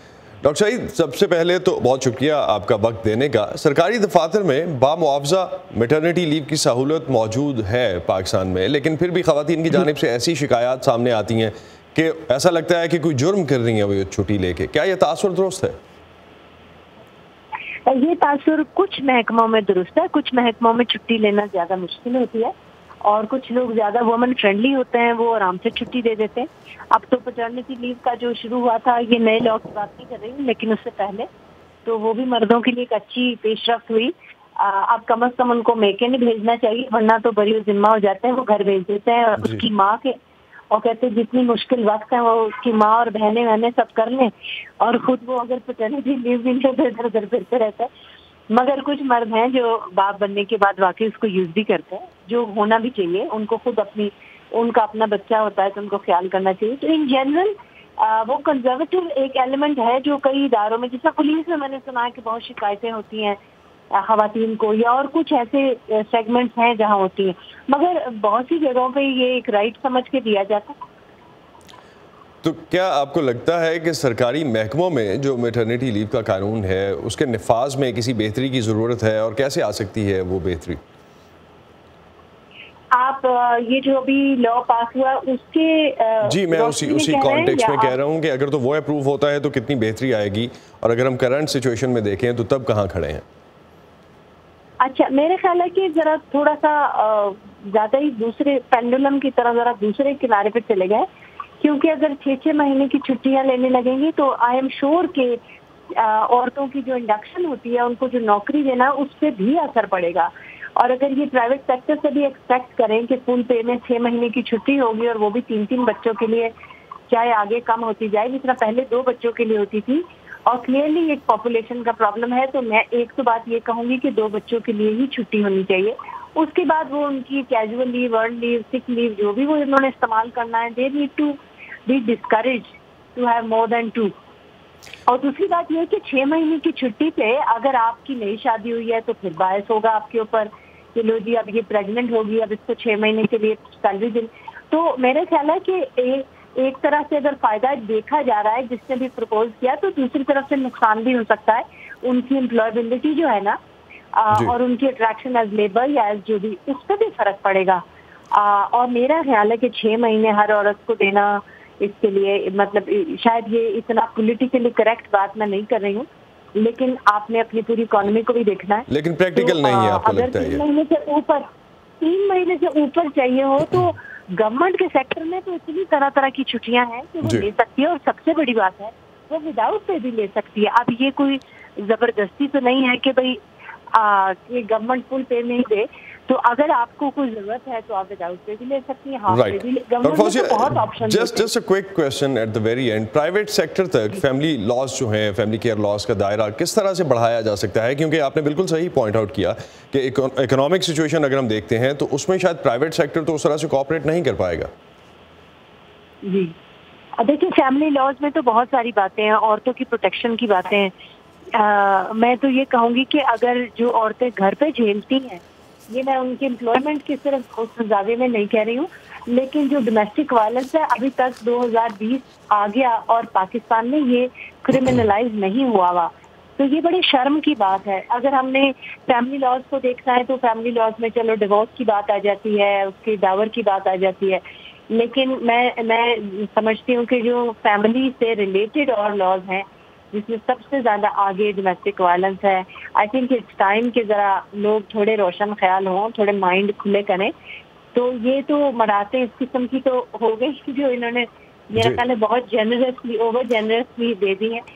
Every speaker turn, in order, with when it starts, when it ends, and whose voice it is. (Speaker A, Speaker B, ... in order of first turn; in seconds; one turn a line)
Speaker A: 0.4-15.8
Speaker B: 17.9-22.5
Speaker B: 23.0-31.2
Speaker B: 31.8-40.1
Speaker B: 40.7-47.9
Speaker B: 48.5-63.4
Speaker B: 63.9-70.8
Speaker A: 72.4-80.8
Speaker B: 82.9-88.0
Speaker A: 86.2-93.2
Speaker B: 94.8-101.0
Speaker B: 101.6-116.5
Speaker B: 117.1-134.1
Speaker B: 135.1-153.6
Speaker B: 154.2-171.4
Speaker A: 168.9-170.6
Speaker B: 172.0-183.4
Speaker B: 183.9-191.5
Speaker A: 189.3-204.7
Speaker B: 206.2-206.5
Speaker B: 207.2-210.9
Speaker B: 211.5-247.3
Speaker B: 247.9-254.6